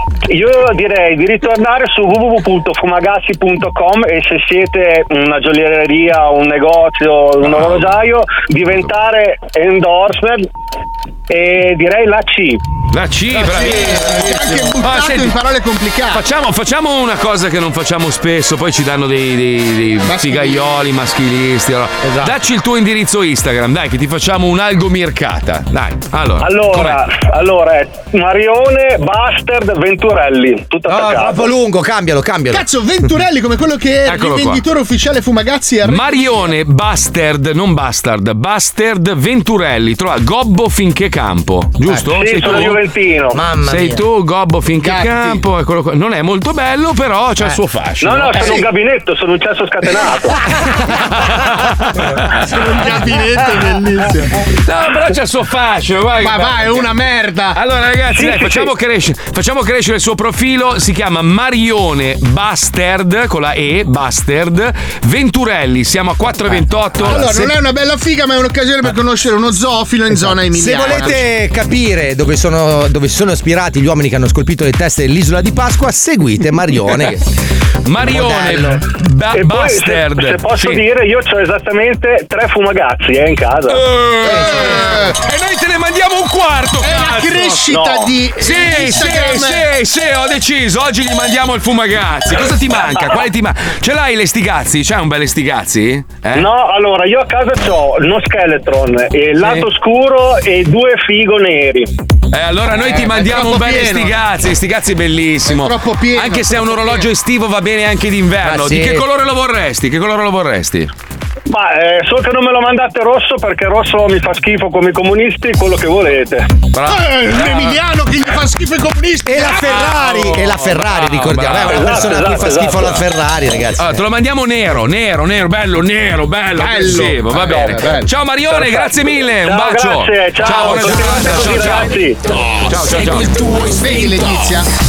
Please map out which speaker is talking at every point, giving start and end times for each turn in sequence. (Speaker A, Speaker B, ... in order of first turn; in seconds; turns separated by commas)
Speaker A: 0.3-10.5, Speaker B: 7.5-8.0, Speaker A: 11.3-12.6, Speaker B: 12.9-15.4, Speaker C: 13.3-16.2, Speaker B: 16.1-27.0, Speaker C: 20.1-20.7, Speaker D: 22.0-22.3, Speaker A: 26.4-31.5, Speaker D: 30.9-32.7, Speaker C: 32.5-36.5, Speaker B: 34.1-34.6, Speaker B: 35.8-42.8, Speaker A: 42.1-43.4, Speaker D: 43.3-44.0, Speaker B: 43.6-48.6, Speaker C: 44.8-45.4, Speaker A: 48.0-50.4, Speaker B: 50.9-52.3, Speaker C: 52.5-54.3, Speaker B: 54.6-56.9, Speaker C: 56.2-57.6, Speaker B: 57.5-67.5, Speaker A: 58.1-58.7, Speaker C: 67.0-71.2, Speaker D: 70.5-77.2, Speaker B: 77.8-80.8, Speaker D: 78.0-78.8, Speaker A: 79.3-83.8, Speaker B: 83.7-87.7, Speaker C: 84.2-85.2, Speaker D: 84.3-84.8, Speaker C: 86.8-89.7, Speaker A: 87.7-88.1, Speaker B: 88.4-96.5, Speaker A: 96.3-101.9, Speaker B: 102.3-110.9, Speaker C: 102.8-104.2, Speaker C: 105.5-107.1, Speaker D: 108.4-109.0, Speaker A: 111.5-116.5, Speaker B: 116.7-117.8, Speaker C: 116.9-120.0, Speaker D: 119.3-124.0, Speaker B: 119.6-122.3, Speaker A: 121.7-123.0, Speaker B: 123.8-132.0, Speaker C: 126.6-128.1, Speaker A: 127.5-127.8, Speaker A: 129.4-132.3, Speaker D: 130.7-131.7, Speaker B: 132.6-133.9, Speaker C: 133.7-134.7